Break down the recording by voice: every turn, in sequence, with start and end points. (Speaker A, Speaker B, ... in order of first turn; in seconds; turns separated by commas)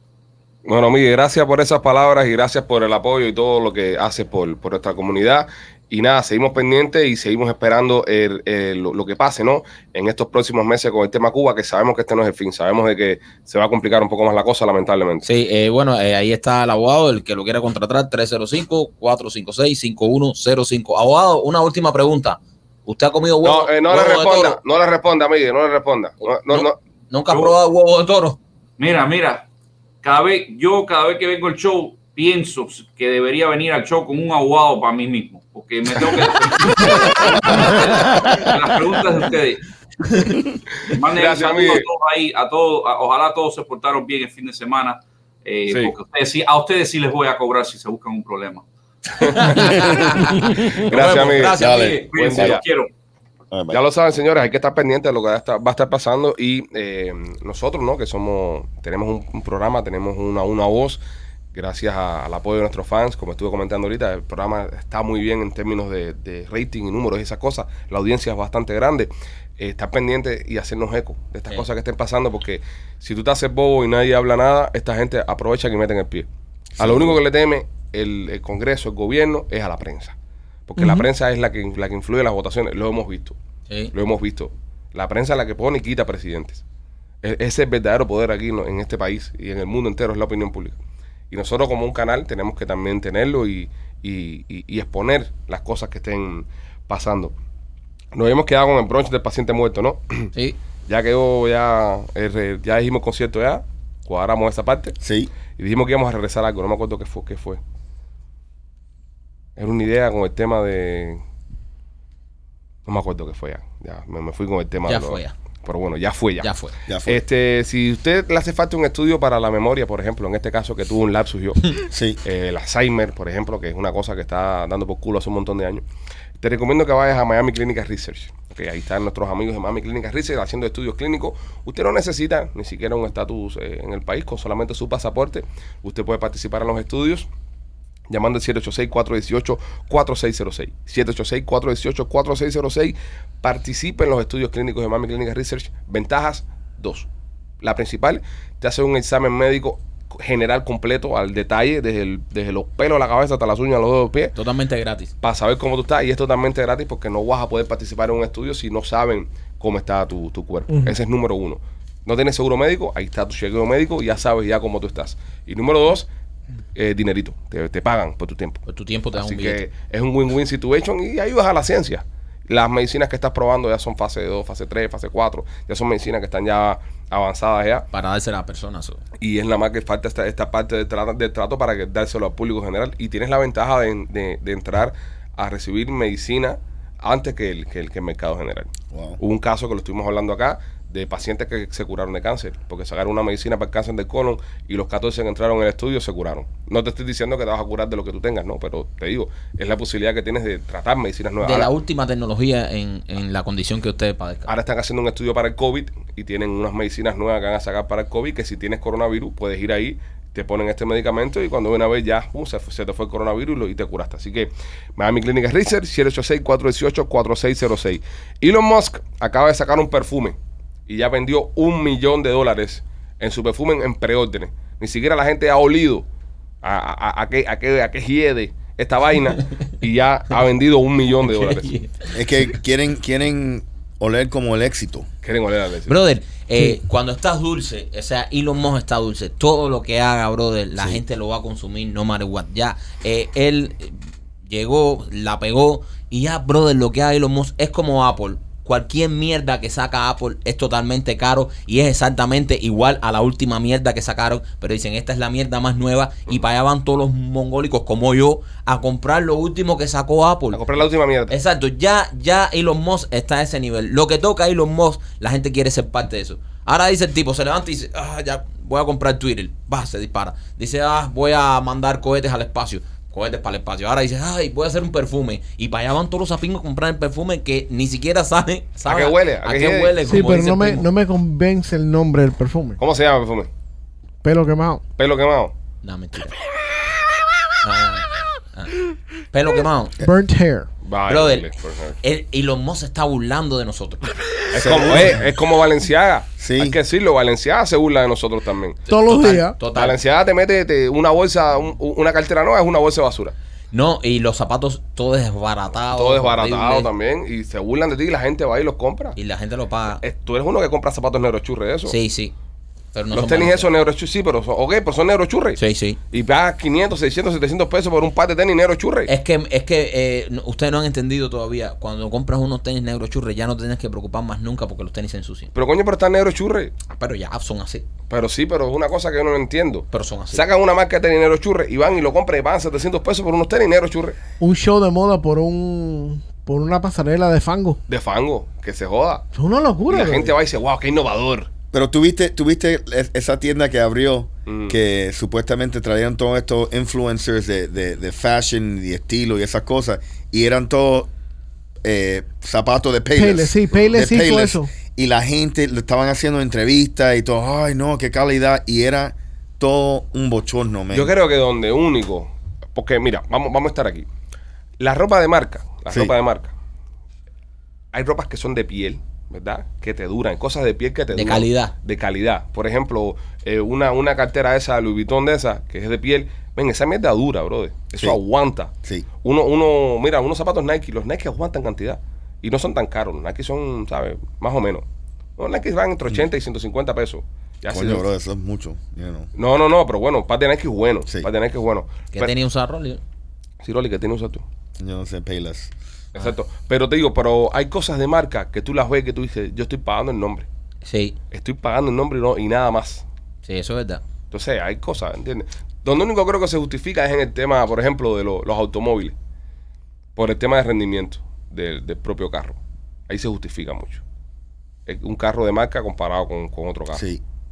Speaker A: 0.6-15.2, Speaker B: 15.2-24.6, Speaker A: 23.4-26.7, Speaker B: 26.5-28.4, Speaker C: 28.8-29.5, Speaker C: 30.0-39.6, Speaker C: 40.9-48.6, Speaker A: 40.9-41.9, Speaker A: 45.7-46.0, Speaker B: 49.2-52.5, Speaker A: 49.3-49.6, Speaker A: 50.8-51.6, Speaker C: 51.6-52.9, Speaker D: 51.6-52.5, Speaker A: 52.1-52.6, Speaker D: 53.5-53.8, Speaker A: 53.7-61.0, Speaker A: 61.5-76.3, Speaker D: 76.8-77.2, Speaker A: 76.8-80.2, Speaker A: 80.7-83.4, Speaker E: 80.8-81.0, Speaker A: 83.9-86.6, Speaker A: 87.2-90.8, Speaker A: 91.3-97.3, Speaker A: 98.1-100.3, Speaker A: 100.9-105.0, Speaker D: 105.0-105.3, Speaker A: 105.6-107.6, Speaker A: 109.6-111.2, Speaker A: 112.8-116.5, Speaker B: 114.9-115.3, Speaker B: 116.4-116.7, Speaker D: 116.9-117.2, Speaker A: 117.0-125.8, Speaker D: 121.9-122.2, Speaker A: 126.4-137.3, Speaker A: 138.1-147.1, Speaker A: 147.6-154.3, Speaker B: 154.3-155.1, Speaker A: 155.2-166.1, Speaker A: 166.8-168.6, Speaker B: 168.7-169.6, Speaker A: 169.2-177.8, Speaker B: 177.9-179.0, Speaker A: 179.2-201.7, Speaker D: 188.9-189.2, Speaker B: 201.4-204.5, Speaker A: 204.5-220.3, Speaker A: 220.9-226.0, Speaker A: 226.6-231.7, Speaker B: 231.2-232.1, Speaker D: 232.1-235.1, Speaker A: 235.2-235.9, Speaker B: 235.9-260.6, Speaker A: 260.5-261.3, Speaker B: 261.3-280.9, Speaker A: 278.9-280.2, Speaker E: 280.1-282.8, Speaker A: 282.8-283.5, Speaker E: 284.2-284.8, Speaker A: 285.0-285.5, Speaker B: 285.8-286.4, Speaker B: 287.6-288.8, Speaker B: 289.3-290.0, Speaker E: 290.0-290.7, Speaker A: 290.8-292.0, Speaker B: 291.1-291.5, Speaker B: 292.0-294.1, Speaker A: 294.5-298.8, Speaker D: 294.5-295.2, Speaker D: 296.4-296.8, Speaker B: 298.9-299.9, Speaker E: 298.9-299.6, Speaker A: 299.7-303.3, Speaker B: 303.7-306.9, Speaker A: 305.9-309.2, Speaker B: 309.1-310.0, Speaker A: 310.0-311.9, Speaker B: 311.9-312.3, Speaker B: 312.9-313.7, Speaker A: 313.1-315.6, Speaker B: 315.6-316.0, Speaker A: 316.1-319.1, Speaker B: 319.1-325.5, Speaker A: 325.5-326.7, Speaker B: 326.9-327.9, Speaker A: 328.1-334.2, Speaker B: 329.9-330.4, Speaker E: 334.4-337.8, Speaker A: 337.9-339.2, Speaker E: 339.3-340.3, Speaker A: 339.9-341.5, Speaker D: 341.7-351.1, Speaker A: 344.5-344.8, Speaker D: 351.8-361.1, Speaker E: 353.1-354.7, Speaker A: 360.9-364.1, Speaker A: 364.8-366.5, Speaker A: 367.9-378.7, Speaker B: 371.1-371.7, Speaker A: 379.2-384.8, Speaker A: 385.4-388.0, Speaker D: 387.7-389.3, Speaker A: 389.4-392.3, Speaker B: 392.1-393.0, Speaker A: 393.6-394.4, Speaker D: 394.8-395.7, Speaker A: 396.1-400.5, Speaker B: 400.8-401.1, Speaker A: 401.3-403.0, Speaker B: 403.4-404.0, Speaker A: 404.3-409.1, Speaker A: 410.1-412.6, Speaker A: 413.1-414.0, Speaker A: 414.9-417.0, Speaker D: 416.9-417.2